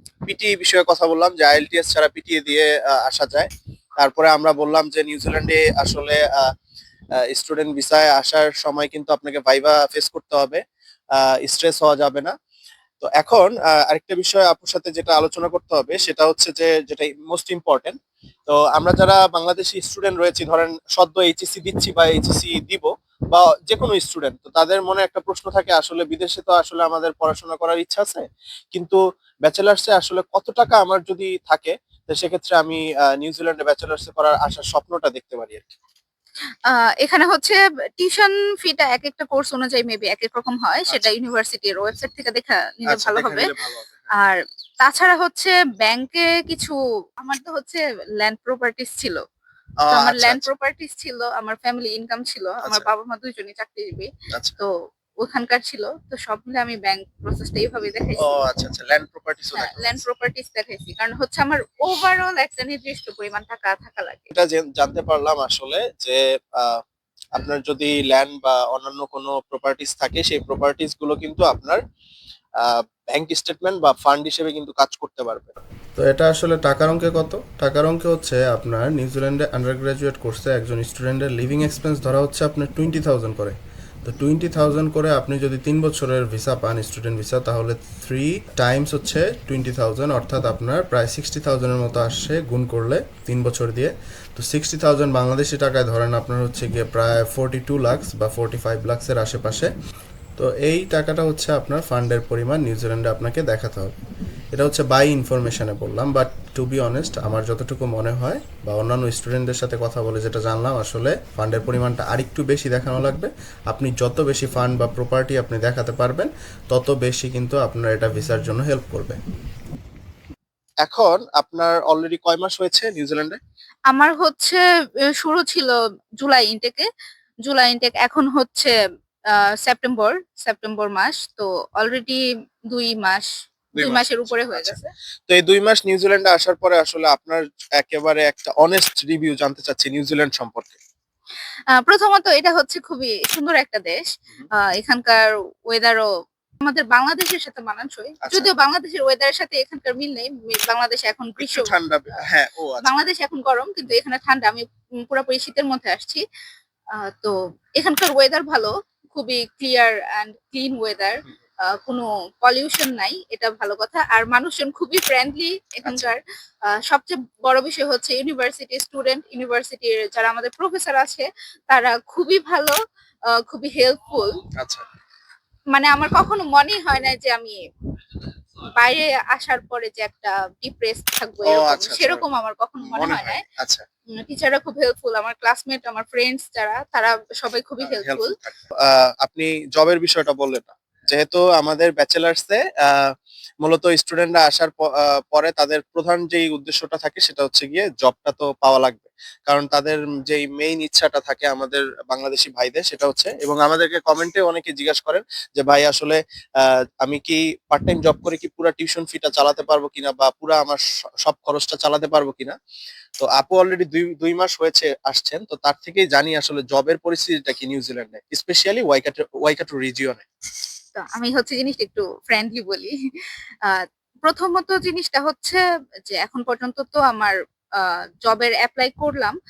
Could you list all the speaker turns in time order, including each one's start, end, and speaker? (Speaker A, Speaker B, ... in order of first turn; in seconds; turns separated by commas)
Speaker A: 0.3-3.5, Speaker A: 4.0-6.5, Speaker A: 7.2-10.6, Speaker A: 11.2-12.3, Speaker A: 13.0-35.8, Speaker B: 36.7-43.5, Speaker A: 42.9-44.0, Speaker B: 44.2-49.2, Speaker A: 49.8-50.5, Speaker B: 49.9-54.7, Speaker A: 52.6-52.9, Speaker B: 55.2-58.5, Speaker A: 58.2-60.0, Speaker B: 59.5-64.3, Speaker A: 64.3-66.8, Speaker A: 67.3-71.8, Speaker A: 72.6-75.5, Speaker C: 76.0-99.7, Speaker C: 100.4-104.0, Speaker C: 104.5-119.2, Speaker A: 120.8-123.4, Speaker B: 123.9-124.6, Speaker B: 125.2-126.9, Speaker B: 127.5-128.7, Speaker B: 129.3-134.9, Speaker A: 133.8-134.8, Speaker A: 135.3-140.8, Speaker B: 141.7-144.1, Speaker B: 144.6-146.1, Speaker B: 146.6-151.7, Speaker A: 148.2-148.5, Speaker A: 151.4-153.0, Speaker B: 152.8-156.2, Speaker B: 156.9-166.2, Speaker A: 165.8-166.1, Speaker B: 166.7-172.8, Speaker B: 173.3-174.4, Speaker A: 174.6-174.8, Speaker B: 175.7-177.6, Speaker B: 178.7-183.4, Speaker A: 181.4-182.2, Speaker A: 182.8-183.8, Speaker B: 184.2-188.3, Speaker A: 187.8-193.1, Speaker A: 193.6-212.6, Speaker A: 213.2-220.3, Speaker B: 221.0-222.9, Speaker B: 223.7-229.4